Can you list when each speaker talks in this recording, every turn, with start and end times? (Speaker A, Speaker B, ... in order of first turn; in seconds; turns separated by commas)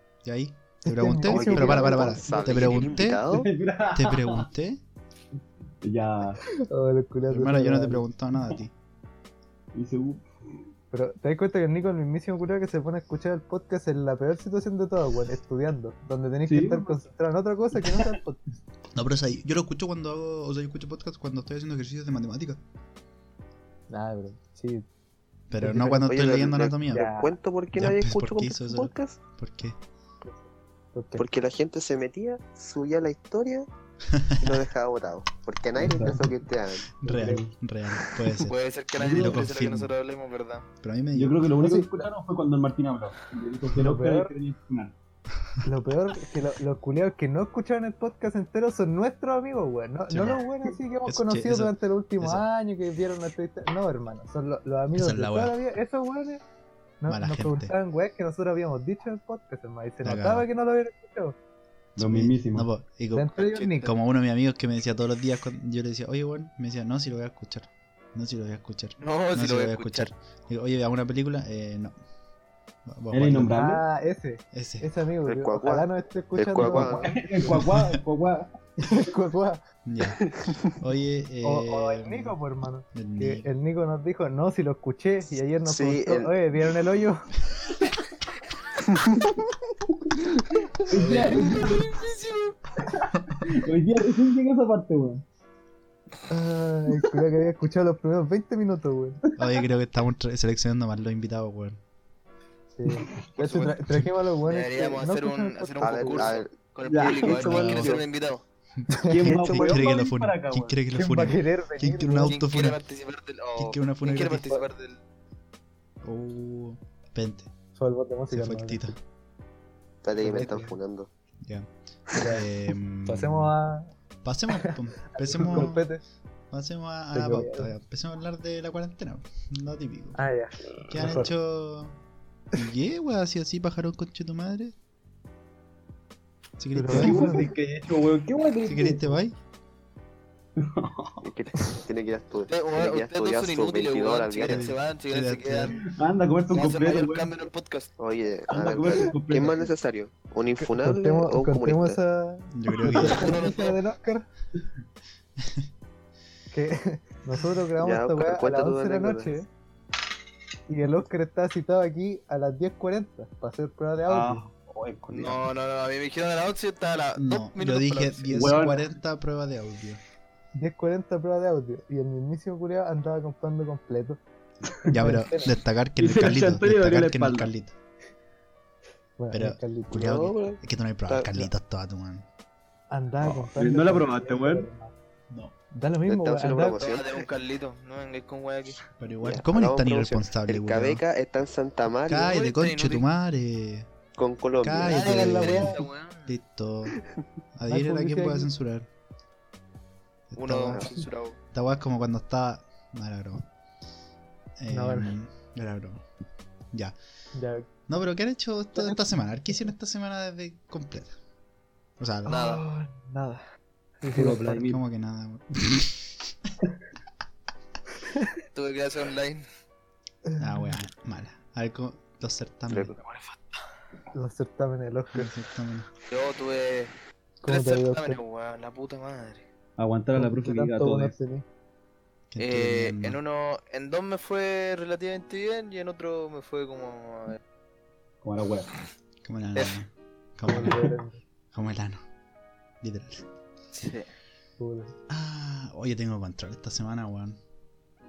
Speaker A: 0.2-3.2, Speaker B: 0.8-2.4, Speaker C: 1.3-1.7, Speaker D: 1.3-3.5, Speaker C: 3.1-4.5, Speaker A: 3.9-4.8, Speaker C: 5.8-6.4, Speaker B: 6.7-8.1, Speaker A: 7.3-8.7, Speaker C: 9.7-10.2, Speaker B: 10.9-18.4, Speaker C: 16.5-17.0, Speaker C: 17.8-18.2, Speaker A: 18.9-22.6, Speaker B: 23.9-24.9, Speaker A: 25.5-27.1, Speaker B: 25.6-26.1, Speaker D: 25.9-29.2, Speaker B: 26.9-27.4, Speaker A: 27.7-29.8, Speaker B: 30.9-31.2, Speaker D: 31.2-33.7, Speaker A: 34.1-34.6, Speaker D: 34.4-36.9, Speaker C: 35.8-36.2, Speaker B: 35.9-36.3, Speaker A: 37.0-39.9, Speaker B: 37.0-37.5, Speaker C: 37.2-37.5, Speaker E: 38.4-40.7, Speaker C: 39.0-39.4, Speaker A: 40.8-41.4, Speaker C: 41.1-44.9, Speaker B: 41.6-42.1, Speaker B: 43.8-44.3, Speaker B: 45.6-56.4, Speaker A: 50.1-50.4, Speaker A: 51.1-52.4, Speaker A: 54.9-55.6, Speaker B: 57.0-61.4, Speaker A: 57.1-57.7, Speaker A: 60.0-60.5, Speaker A: 62.0-71.9, Speaker C: 62.0-62.7, Speaker B: 63.1-63.9, Speaker E: 63.4-63.8, Speaker E: 69.0-70.1, Speaker A: 72.9-73.6, Speaker C: 73.1-73.8, Speaker B: 73.5-77.6, Speaker A: 74.5-74.9, Speaker D: 75.3-77.2, Speaker C: 76.8-78.9, Speaker A: 77.5-78.0, Speaker B: 78.8-79.6, Speaker A: 79.9-82.4, Speaker B: 81.4-87.3, Speaker A: 82.9-83.5, Speaker D: 85.7-86.3, Speaker D: 88.9-89.2, Speaker C: 90.9-92.0, Speaker B: 90.9-91.7, Speaker E: 91.1-92.6, Speaker C: 92.9-95.2, Speaker B: 96.3-99.2, Speaker A: 99.4-101.8, Speaker B: 102.8-106.4, Speaker E: 103.4-103.8, Speaker E: 104.5-108.4, Speaker D: 105.8-108.0, Speaker C: 106.9-107.5, Speaker A: 107.3-108.0, Speaker B: 108.9-109.5, Speaker C: 109.1-110.8, Speaker D: 109.2-109.9, Speaker A: 109.5-112.8, Speaker B: 111.0-112.4, Speaker E: 112.3-115.0, Speaker A: 113.6-114.7, Speaker A: 116.0-117.5, Speaker B: 117.8-119.0, Speaker A: 118.3-119.0, Speaker D: 120.0-121.1, Speaker B: 120.2-120.8, Speaker A: 121.4-123.5, Speaker B: 122.2-122.5, Speaker B: 123.1-123.9, Speaker A: 124.2-125.9, Speaker B: 124.5-126.0, Speaker A: 126.5-130.2, Speaker B: 127.1-127.7, Speaker B: 130.2-131.3, Speaker A: 130.9-131.9, Speaker A: 132.5-134.8, Speaker A: 136.6-137.4, Speaker B: 136.8-137.5, Speaker C: 136.9-139.2, Speaker A: 138.7-139.4, Speaker C: 140.6-141.2, Speaker D: 141.2-144.7, Speaker E: 142.5-145.8, Speaker A: 144.4-145.8, Speaker C: 145.8-147.3, Speaker E: 146.5-147.9, Speaker D: 148.0-152.0, Speaker C: 148.5-149.7, Speaker B: 150.6-154.3, Speaker A: 152.5-153.3, Speaker E: 153.0-153.8, Speaker A: 155.4-155.7, Speaker B: 156.5-159.5, Speaker D: 157.8-159.4, Speaker B: 160.7-164.5, Speaker C: 164.1-165.4, Speaker E: 165.1-168.6, Speaker A: 167.2-170.0, Speaker C: 168.3-168.8, Speaker B: 170.6-174.2, Speaker B: 174.9-175.5, Speaker A: 174.9-177.7, Speaker C: 176.0-177.5, Speaker B: 179.2-180.2, Speaker A: 179.3-182.2, Speaker D: 179.9-181.3, Speaker B: 182.9-184.9, Speaker C: 183.6-184.7, Speaker B: 185.7-186.9, Speaker D: 186.1-187.2, Speaker E: 186.8-188.8, Speaker A: 189.0-191.0, Speaker D: 189.2-192.3, Speaker A: 192.1-193.9, Speaker E: 192.3-193.1, Speaker D: 194.2-195.3, Speaker A: 194.6-197.0, Speaker E: 194.8-196.3, Speaker B: 195.0-195.8, Speaker A: 197.6-198.9, Speaker B: 197.7-198.5, Speaker A: 200.3-200.9, Speaker E: 200.4-201.4, Speaker D: 200.7-201.0, Speaker A: 201.5-203.4, Speaker A: 204.6-206.0, Speaker B: 204.7-205.1, Speaker B: 207.3-207.7, Speaker A: 207.9-211.2, Speaker A: 212.0-212.4, Speaker B: 212.2-213.4, Speaker E: 212.3-212.6, Speaker B: 214.0-214.8, Speaker C: 214.1-214.8, Speaker A: 214.7-216.5, Speaker E: 218.5-219.5, Speaker B: 220.3-220.7, Speaker A: 220.4-222.9, Speaker D: 222.7-223.0, Speaker E: 223.0-223.6, Speaker B: 224.1-225.3, Speaker A: 225.1-225.9, Speaker E: 226.1-229.4, Speaker B: 227.4-228.2, Speaker C: 229.8-231.2, Speaker B: 230.2-231.4, Speaker A: 232.3-233.2, Speaker E: 232.4-237.4, Speaker C: 238.2-238.7, Speaker A: 239.2-240.9, Speaker B: 240.4-241.2, Speaker A: 241.5-242.0, Speaker A: 242.8-243.3, Speaker E: 243.7-244.1, Speaker B: 244.6-244.9, Speaker A: 245.1-247.4